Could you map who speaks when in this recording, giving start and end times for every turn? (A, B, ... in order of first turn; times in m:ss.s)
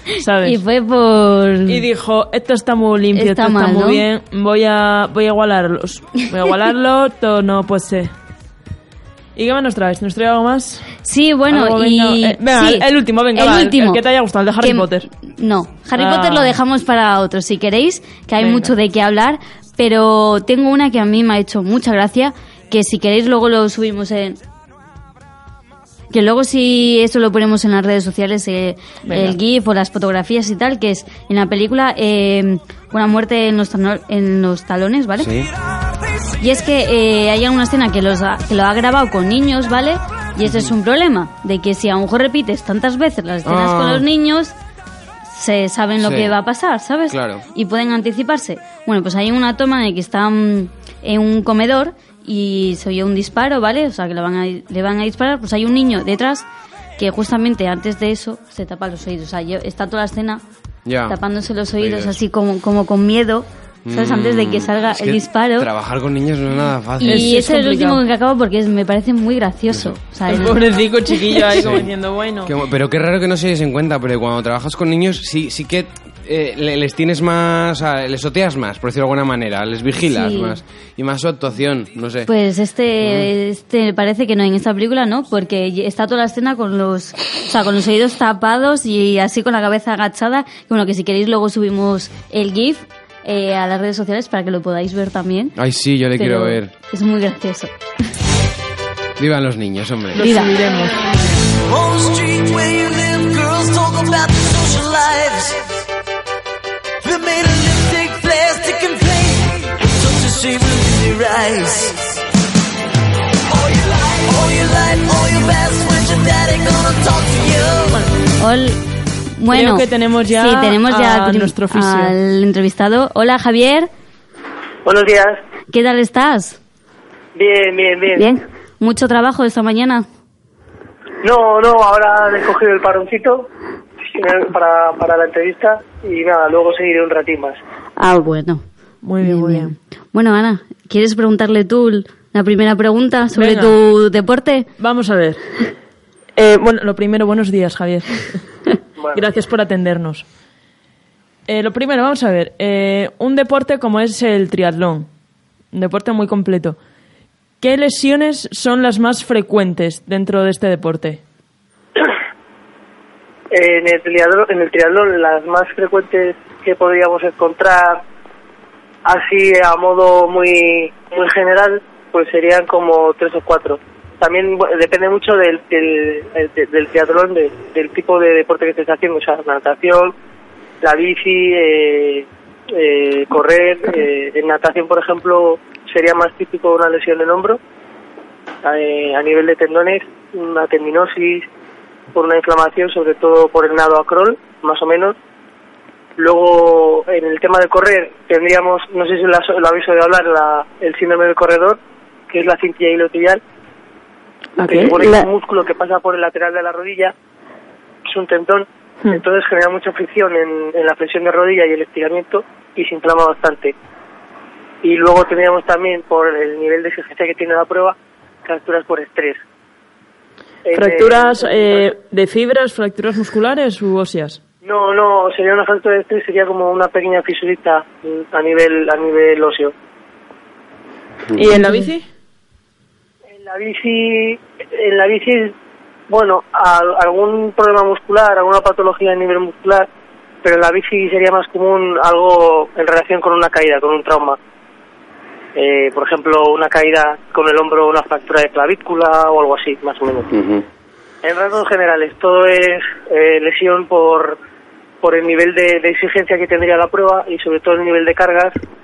0:00.2-0:00.6 A
0:00.4-0:01.9 B
0:01.7-0:08.1 A
0:03.1-0:04.0 B
0:09.4-0:10.9 A
0:11.0-0:14.0 B
0:11.5-0:15.1 A
0:14.6-0:24.4 B
0:16.0-0:16.6 A
0:18.4-0:18.7 A
0:26.1-0:35.3 B
0:29.1-0:29.4 A
0:35.2-0:35.5 C
0:36.4-0:44.5 B
0:40.4-0:40.7 C
0:43.4-0:44.1 C
0:45.3-0:56.5 B
0:46.0-0:46.4 C
0:47.1-0:47.4 C
0:57.0-1:00.4 B
1:00.9-1:01.2 C
1:01.1-1:05.7 B
1:01.8-1:02.2 C
1:03.9-1:07.4 C
1:07.0-1:10.6 B
1:07.0-1:08.0 A
1:09.7-1:10.0 C
1:10.3-1:12.6 A
1:11.3-1:11.6 B
1:11.6-1:11.9 C
1:12.4-1:22.3 C
1:20.1-1:20.6 B
1:22.3-1:35.6 B
1:23.0-1:23.3 C
1:35.6-1:36.7 C
1:36.2-1:37.7 B
1:39.2-1:40.2 C
1:40.1-1:41.0 A
1:40.2-1:40.5 B
1:41.7-1:45.6 D
1:47.0-1:52.0 D
1:53.5-1:57.9 D
1:58.4-1:58.8 B
1:59.4-2:03.9 B
1:59.5-2:02.2 A
2:04.8-2:05.4 E
2:05.7-2:06.6 B
2:07.4-2:08.3 E
2:08.1-2:10.1 B
2:11.2-2:13.5 E
2:14.1-2:17.6 E
2:18.0-2:18.6 B
2:19.0-2:19.7 A
2:19.2-2:24.7 B
2:23.4-2:23.8 A
2:24.8-2:25.4 A
2:26.4-2:28.4 A
2:29.0-2:29.2 E
2:29.1-2:30.2 A
2:31.5-2:35.1 A
2:35.7-2:36.8 A
2:37.6-2:41.2 A
2:43.5-2:48.0 E
2:49.0-3:00.2 E
3:00.8-3:07.6 E
3:08.6-3:11.5 E
3:12.1-3:15.2 E
3:16.2-3:21.8 E
3:22.3-3:23.4 E
3:24.6-3:25.1 A
3:24.6-3:27.1 E
3:28.1-3:33.8 E
3:34.8-3:39.4 E
3:40.6-3:41.9 E
3:40.7-3:44.4 A
3:44.6-3:49.7 E
3:51.4-3:52.0 A
3:53.3-3:55.5 E
3:56.1-3:59.9 E
4:00.4-4:04.4 E
4:05.6-4:10.3 E
4:10.3-4:10.6 C
4:11.2-4:14.4 E
4:15.0-4:18.6 E